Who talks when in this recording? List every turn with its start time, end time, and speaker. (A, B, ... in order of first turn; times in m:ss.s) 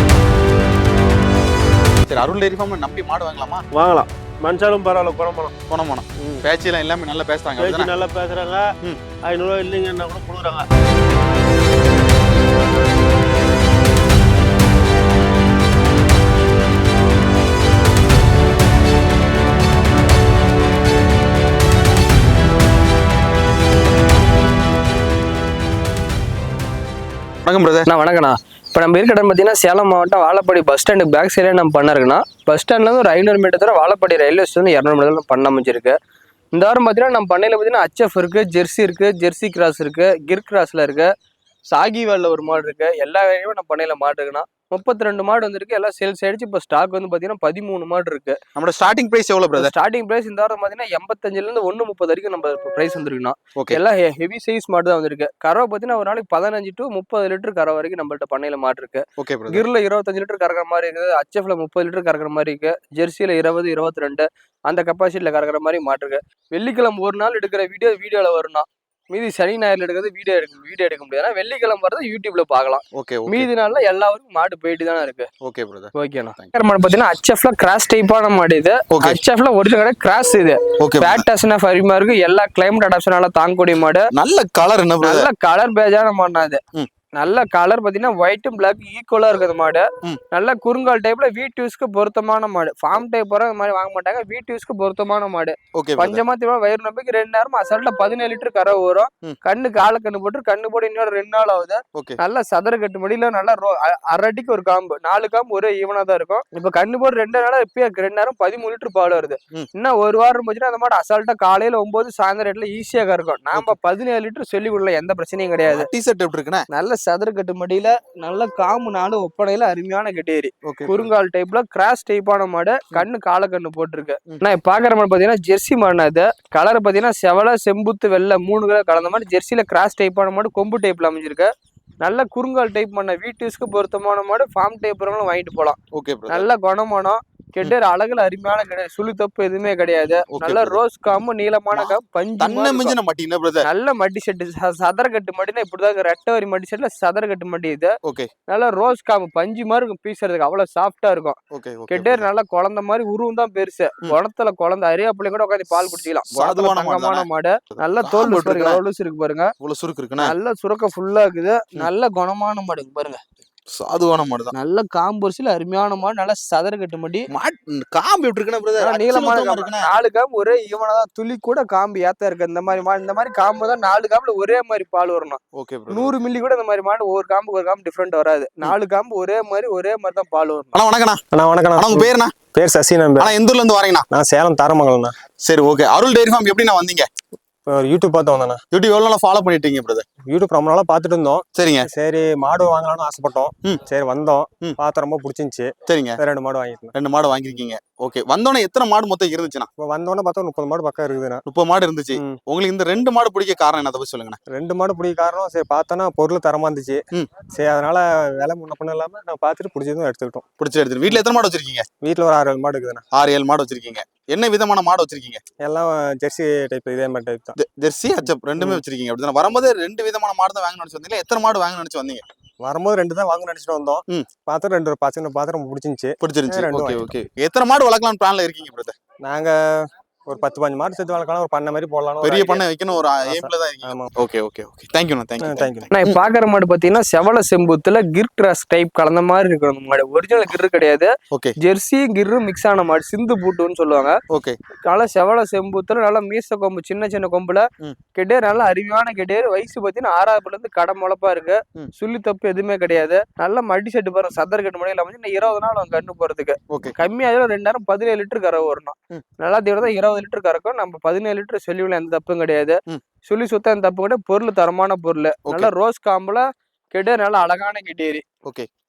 0:02.1-0:03.6 A
0:03.7-0:05.5 B
0:05.7-0:07.9 A
0:07.6-0:08.7 B
0:09.2-0:10.6 B
0:27.4-0:27.9 A
0:27.9-0:36.0 C
0:36.5-0:41.1 C
0:41.7-0:48.4 C
0:48.5-0:49.7 A
0:49.6-1:15.3 C
0:59.2-0:59.6 A
1:12.9-1:13.5 A
1:15.4-1:16.5 A
1:15.9-1:24.0 C
1:18.9-1:19.2 A
1:20.8-1:21.2 A
1:24.1-1:25.3 A
1:25.0-1:26.6 C
1:27.2-1:55.9 C
1:35.7-1:36.2 A
1:55.7-1:56.6 A
1:56.7-2:11.5 C
2:00.6-2:01.1 A
2:12.0-2:15.8 C
2:15.9-2:16.4 A
2:16.3-2:22.9 C
2:20.3-2:20.8 A
2:21.7-2:23.7 A
2:23.6-2:27.9 C
2:28.0-2:28.3 A
2:28.5-2:31.4 C
2:31.5-2:32.3 A
2:31.9-2:39.5 C
2:36.3-2:38.8 A
2:39.6-2:40.3 A
2:40.2-2:43.2 C
2:43.7-2:44.5 A
2:44.5-2:47.3 C
2:47.3-2:49.9 A
2:48.8-3:00.8 C
2:55.6-2:56.1 A
3:00.7-3:01.2 A
3:01.3-3:03.3 D
3:01.8-3:02.4 A
3:03.2-3:04.0 A
3:04.1-3:05.2 D
3:05.4-3:07.1 A
3:07.7-3:08.6 D
3:08.7-3:10.0 A
3:10.3-3:16.9 D
3:11.5-3:11.9 A
3:15.9-3:16.2 A
3:16.9-3:19.7 A
3:19.8-3:21.4 D
3:21.4-3:24.4 A
3:24.5-3:27.0 D
3:27.5-3:30.4 D
3:30.6-3:31.8 A
3:32.0-3:33.0 D
3:33.1-3:35.4 A
3:35.6-3:37.6 D
3:37.6-3:42.2 A
3:42.6-3:47.1 D
3:46.2-3:48.9 A
3:49.2-3:49.6 D
3:50.3-3:52.6 D
3:52.2-3:56.2 A
3:53.2-3:54.1 D
3:55.4-3:55.9 D
3:55.9-4:04.2 C
4:04.3-4:04.6 A
4:04.9-4:28.2 C
4:25.4-4:25.7 A